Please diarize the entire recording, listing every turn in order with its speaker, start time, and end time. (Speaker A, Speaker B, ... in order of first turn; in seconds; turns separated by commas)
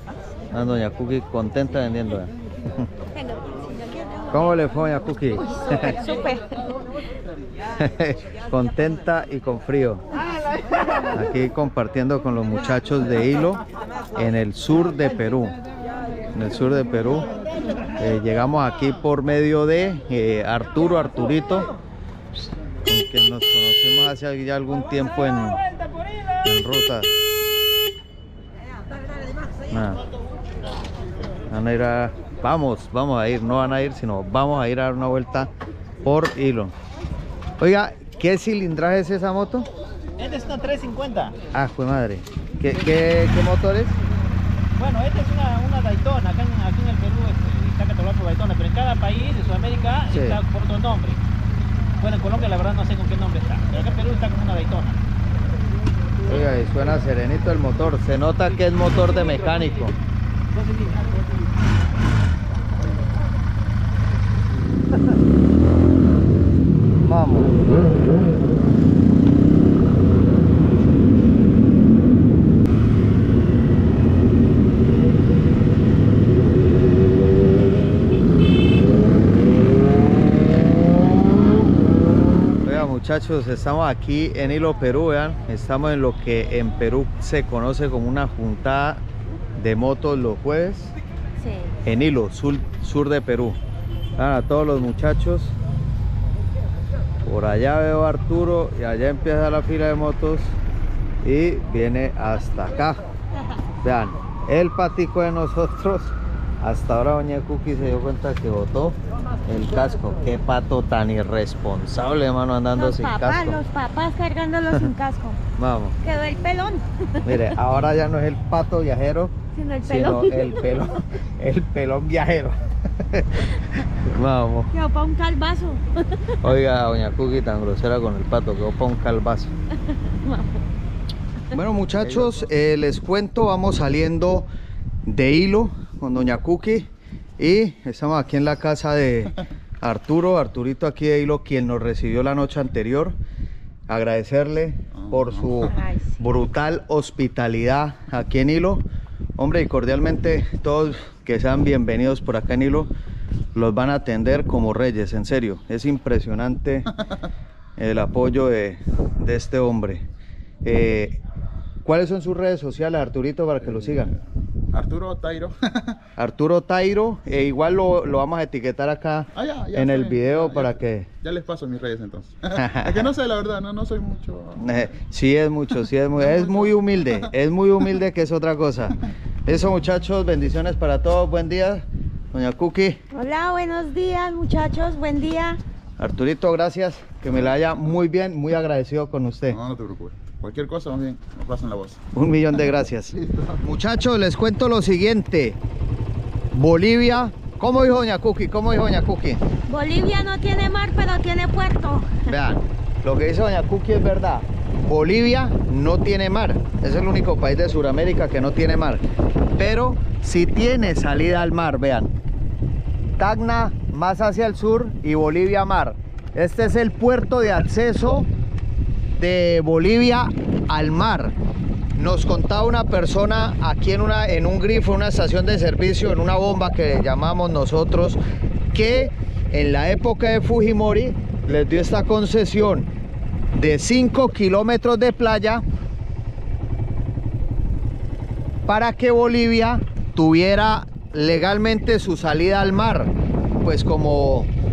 Speaker A: 0.5-2.9, Speaker B: 3.1-4.4, Speaker A: 4.3-6.0, Speaker B: 5.5-6.7, Speaker A: 7.8-10.0, Speaker A: 11.1-13.6, Speaker A: 14.1-15.6, Speaker A: 16.3-17.3, Speaker A: 18.0-21.7, Speaker A: 22.9-25.6, Speaker A: 26.4-27.1, Speaker A: 29.7-30.0, Speaker A: 31.5-35.5, Speaker A: 36.0-36.7, Speaker A: 37.6-39.7, Speaker C: 40.2-41.4, Speaker A: 41.5-44.0, Speaker C: 44.8-51.2, Speaker A: 50.1-50.4, Speaker C: 52.0-55.0, Speaker A: 56.2-60.0, Speaker A: 67.0-67.6, Speaker A: 82.6-89.0, Speaker A: 89.5-90.9, Speaker B: 91.4-91.8, Speaker A: 91.8-93.6, Speaker A: 94.2-95.5, Speaker A: 97.2-100.6, Speaker A: 101.2-103.0, Speaker A: 103.8-113.6, Speaker B: 112.8-115.4, Speaker A: 115.6-116.0, Speaker B: 116.0-117.3, Speaker A: 117.2-119.3, Speaker B: 119.5-120.9, Speaker A: 119.8-124.7, Speaker B: 124.7-126.4, Speaker A: 126.4-129.5, Speaker B: 130.2-130.6, Speaker A: 131.5-134.4, Speaker A: 135.1-136.9, Speaker A: 137.4-143.2, Speaker A: 143.9-148.8, Speaker D: 144.9-145.6, Speaker B: 145.7-146.2, Speaker A: 149.4-152.9, Speaker A: 153.5-156.9, Speaker A: 157.8-160.0, Speaker A: 160.6-161.2, Speaker A: 161.8-164.1, Speaker D: 164.7-166.0, Speaker A: 166.2-171.1, Speaker D: 169.3-174.6, Speaker A: 172.5-173.0, Speaker A: 174.6-183.0, Speaker D: 176.2-176.7, Speaker B: 183.1-185.6, Speaker A: 186.0-189.6, Speaker D: 189.5-192.0, Speaker A: 192.1-195.6, Speaker D: 193.2-193.5, Speaker A: 196.5-199.4, Speaker B: 199.7-202.3, Speaker A: 202.2-209.0, Speaker A: 209.6-212.1, Speaker A: 213.2-218.3, Speaker A: 219.2-221.3, Speaker A: 221.9-228.2, Speaker A: 228.7-232.9, Speaker A: 233.5-235.6, Speaker A: 238.7-244.5